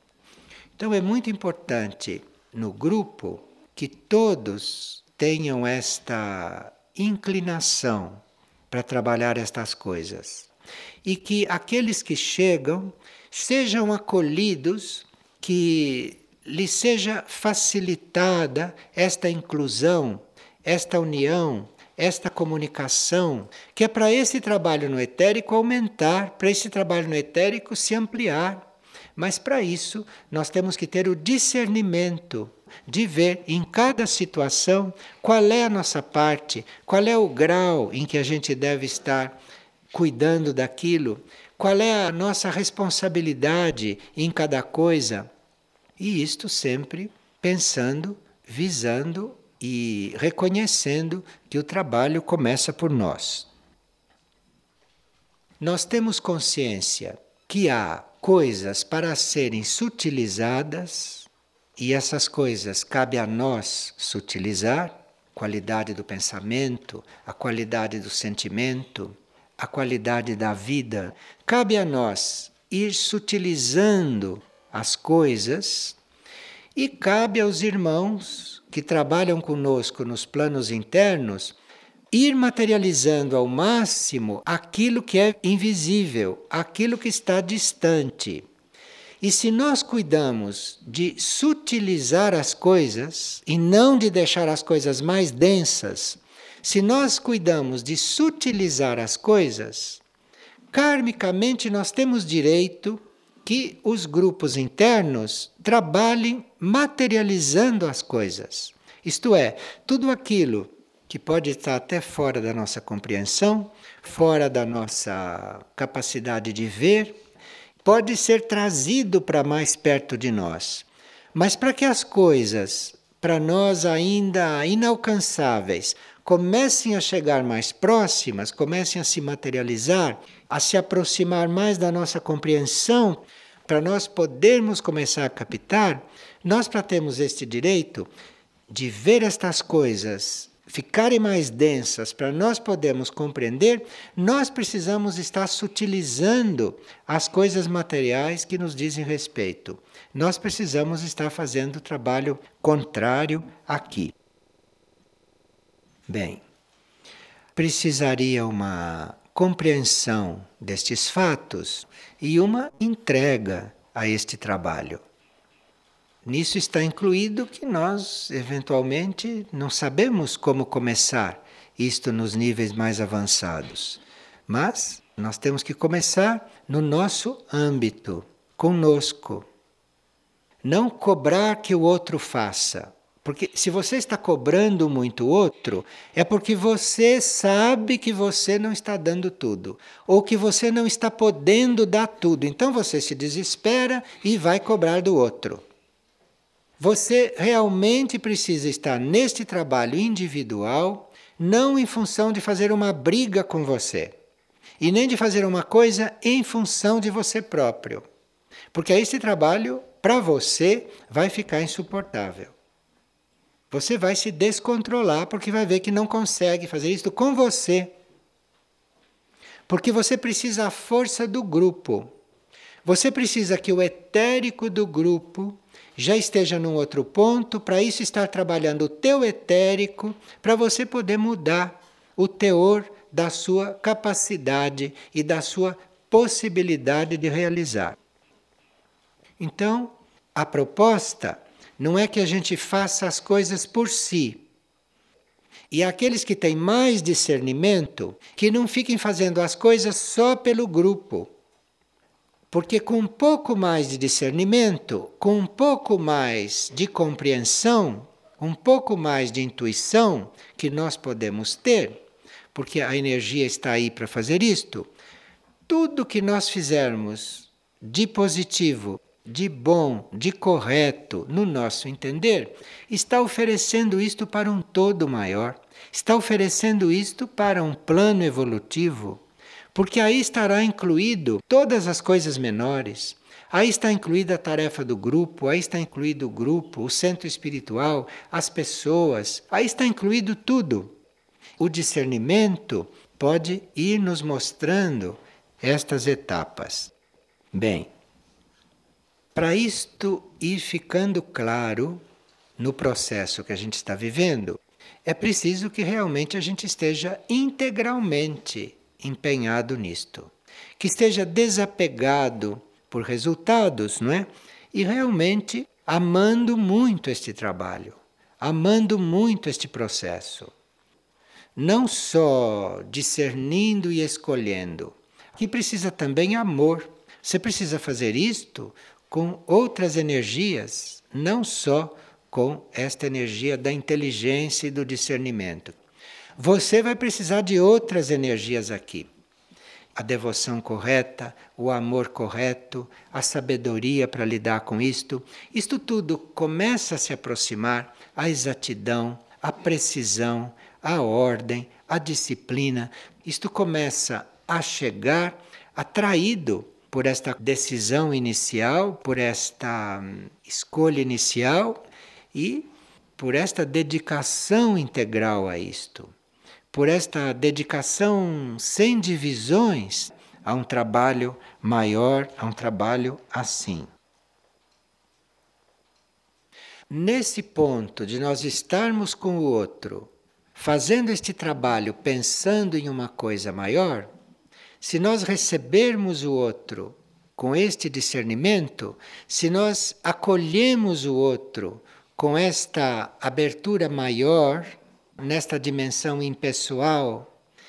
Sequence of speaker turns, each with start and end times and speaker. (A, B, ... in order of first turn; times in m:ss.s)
0:00.8-0:10.5 A
0:11.0-0:28.6 A
0:29.2-0:39.4 A
0:39.9-0:45.3 A
0:46.0-0:53.5 A
0:55.6-1:16.0 A
1:16.8-1:21.6 A
1:22.1-1:28.4 A
1:29.2-1:40.0 A
1:40.7-1:57.2 A
1:57.8-2:18.1 A
2:18.7-2:34.1 A
2:36.1-2:36.4 A
2:37.5-2:45.0 A
2:46.2-2:59.4 A
3:00.6-3:15.6 A
3:16.8-3:24.2 A
3:24.8-3:28.1 A
3:28.7-3:32.5 A
3:33.7-3:37.9 A
3:39.7-3:42.1 A
3:42.8-3:58.0 A
3:59.4-4:04.4 A
4:05.7-4:11.3 A
4:12.5-4:22.0 A
4:22.5-4:24.9 A
4:25.7-4:39.2 A
4:39.7-4:50.9 A
4:51.6-4:56.9 A
4:57.5-4:57.9 A
4:59.3-5:02.0 A
5:02.6-5:20.5 A
5:21.6-5:35.8 A
5:36.4-5:39.1 A
5:40.0-6:01.8 A
6:02.3-6:06.1 A
6:06.7-6:13.9 A
6:16.9-6:24.1 A
6:24.8-6:37.3 A